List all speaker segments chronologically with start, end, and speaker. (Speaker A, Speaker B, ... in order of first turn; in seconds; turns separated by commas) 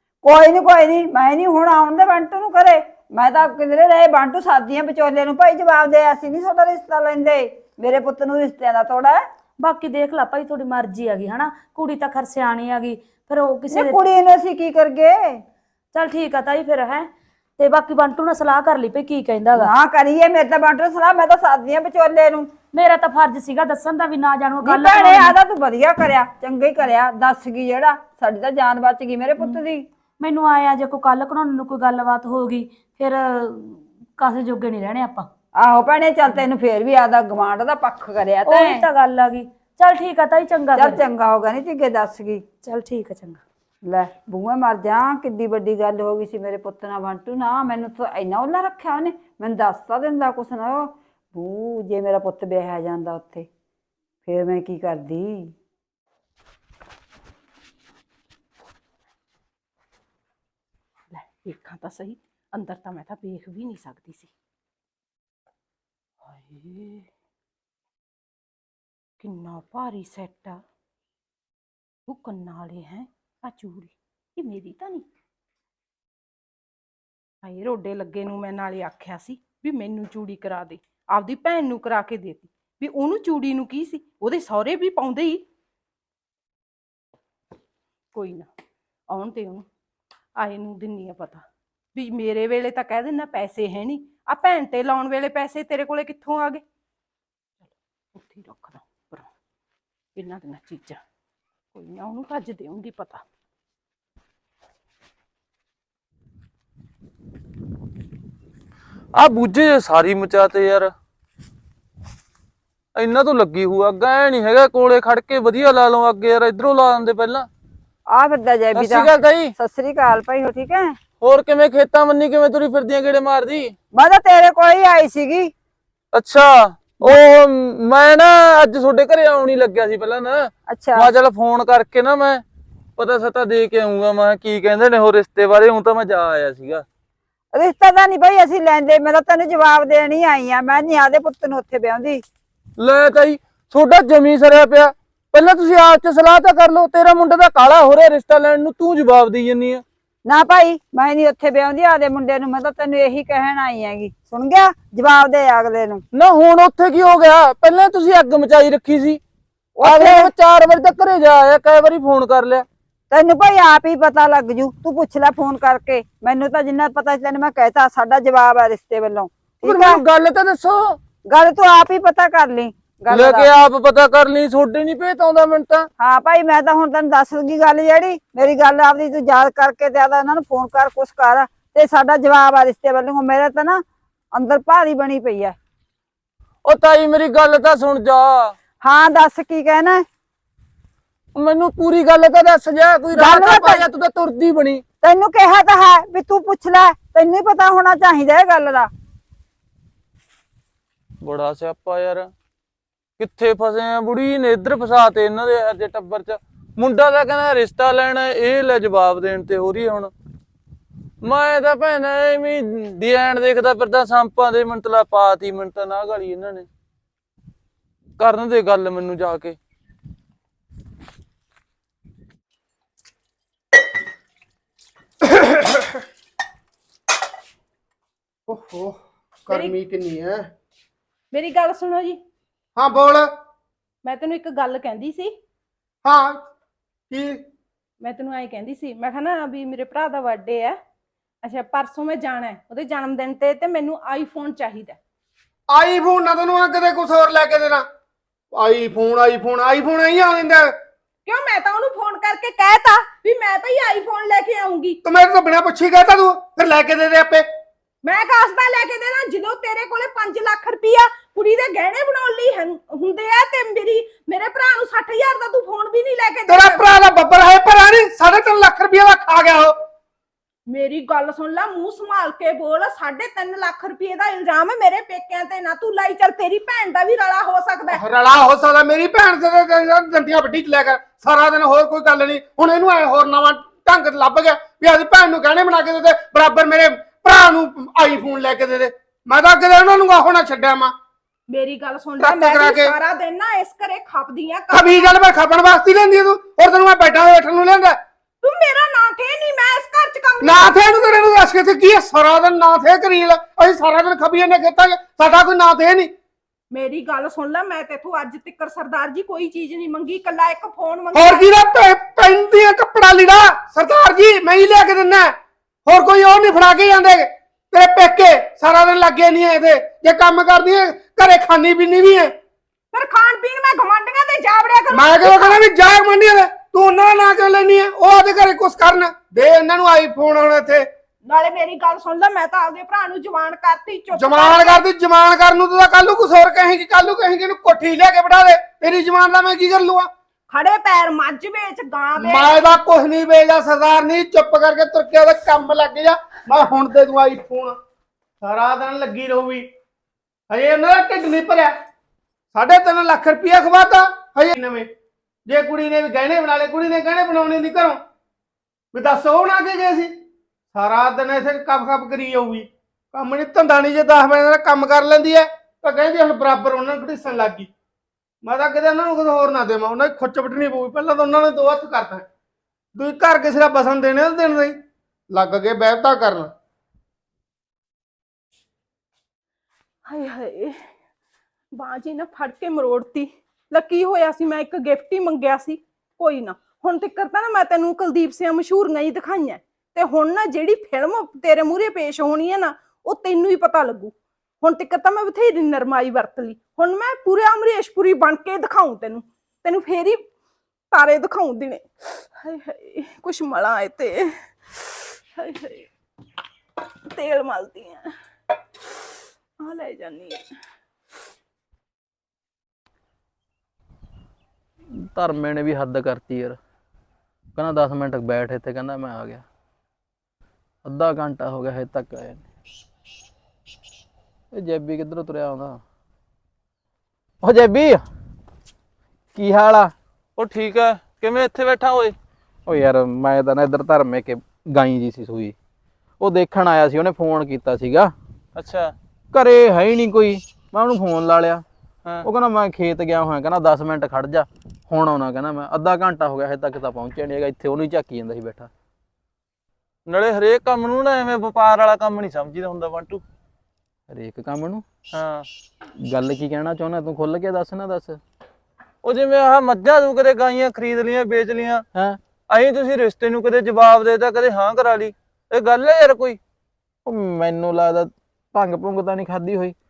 Speaker A: 0.2-9.2, Speaker B: 9.6-14.0, Speaker A: 13.7-15.4, Speaker B: 15.9-19.7, Speaker A: 19.6-22.5, Speaker B: 22.7-25.4, Speaker A: 24.6-29.9, Speaker B: 30.2-35.3, Speaker A: 35.6-38.9, Speaker B: 38.5-41.0, Speaker A: 40.8-42.4, Speaker B: 42.6-43.4, Speaker A: 43.9-53.5, Speaker A: 54.3-55.5, Speaker C: 61.1-64.3, Speaker C: 66.2-67.1, Speaker C: 69.2-70.6, Speaker C: 72.1-75.1, Speaker C: 77.4-85.4, Speaker C: 88.1-88.5, Speaker C: 89.1-89.7, Speaker C: 90.4-96.6, Speaker C: 97.6-99.3, Speaker C: 100.2-101.0, Speaker C: 101.8-103.2, Speaker D: 109.1-110.9, Speaker D: 113.0-117.5, Speaker A: 118.1-121.0, Speaker D: 118.8-119.5, Speaker D: 121.2-123.7, Speaker A: 123.9-125.5, Speaker D: 126.1-132.4, Speaker A: 130.7-131.1, Speaker D: 133.0-136.8, Speaker A: 137.5-142.2, Speaker D: 142.8-149.8, Speaker A: 150.3-156.0, Speaker D: 156.1-159.2, Speaker A: 159.8-160.3, Speaker D: 159.8-162.7, Speaker A: 163.1-170.0, Speaker D: 169.6-171.0, Speaker A: 171.3-173.5, Speaker D: 173.1-175.9, Speaker A: 176.0-183.8, Speaker A: 184.3-185.6, Speaker D: 186.7-188.5, Speaker A: 188.8-190.0, Speaker D: 191.4-194.8, Speaker A: 193.1-193.9, Speaker A: 195.0-198.9, Speaker D: 201.2-202.3, Speaker D: 203.2-210.1, Speaker D: 211.2-216.7, Speaker D: 218.2-219.6, Speaker E: 225.3-225.9, Speaker E: 228.5-230.5, Speaker C: 231.3-232.2, Speaker E: 232.8-233.3, Speaker C: 234.0-235.3, Speaker E: 236.1-236.4, Speaker E: 237.1-237.4, Speaker C: 238.0-240.8, Speaker C: 241.4-245.0, Speaker E: 245.7-247.9, Speaker E: 248.5-250.7, Speaker C: 251.3-255.0, Speaker E: 255.1-257.5, Speaker C: 258.0-266.9, Speaker E: 266.5-269.8, Speaker C: 270.7-278.0, Speaker E: 277.9-290.9, Speaker C: 291.5-295.1, Speaker E: 292.2-292.9, Speaker E: 294.7-298.0, Speaker C: 298.4-300.8, Speaker E: 300.4-306.1, Speaker C: 306.7-311.5, Speaker E: 311.1-322.3, Speaker C: 322.9-325.6, Speaker E: 324.9-330.9, Speaker C: 331.3-334.8, Speaker E: 334.1-340.1, Speaker C: 340.5-342.6, Speaker E: 342.2-347.8, Speaker E: 348.4-349.7, Speaker E: 350.5-351.7, Speaker E: 352.5-354.9, Speaker E: 355.5-358.0, Speaker E: 358.9-360.1, Speaker E: 360.7-367.7, Speaker E: 368.4-372.2, Speaker E: 373.0-374.8, Speaker E: 375.3-376.5, Speaker C: 380.1-380.9, Speaker C: 381.8-400.2, Speaker C: 400.9-405.9, Speaker C: 407.1-408.1, Speaker C: 409.6-410.5, Speaker F: 414.9-416.6, Speaker F: 417.6-419.4, Speaker F: 420.9-422.4, Speaker F: 424.5-425.8, Speaker F: 427.4-428.0, Speaker F: 429.4-429.9, Speaker D: 430.4-432.1, Speaker F: 432.7-435.6, Speaker F: 436.2-438.1, Speaker D: 438.6-438.9, Speaker F: 439.3-441.6, Speaker F: 442.2-448.7, Speaker D: 450.1-453.2, Speaker F: 454.1-454.9, Speaker D: 455.1-455.5, Speaker F: 456.0-458.2, Speaker D: 459.0-461.8, Speaker D: 462.5-466.4, Speaker F: 467.1-469.8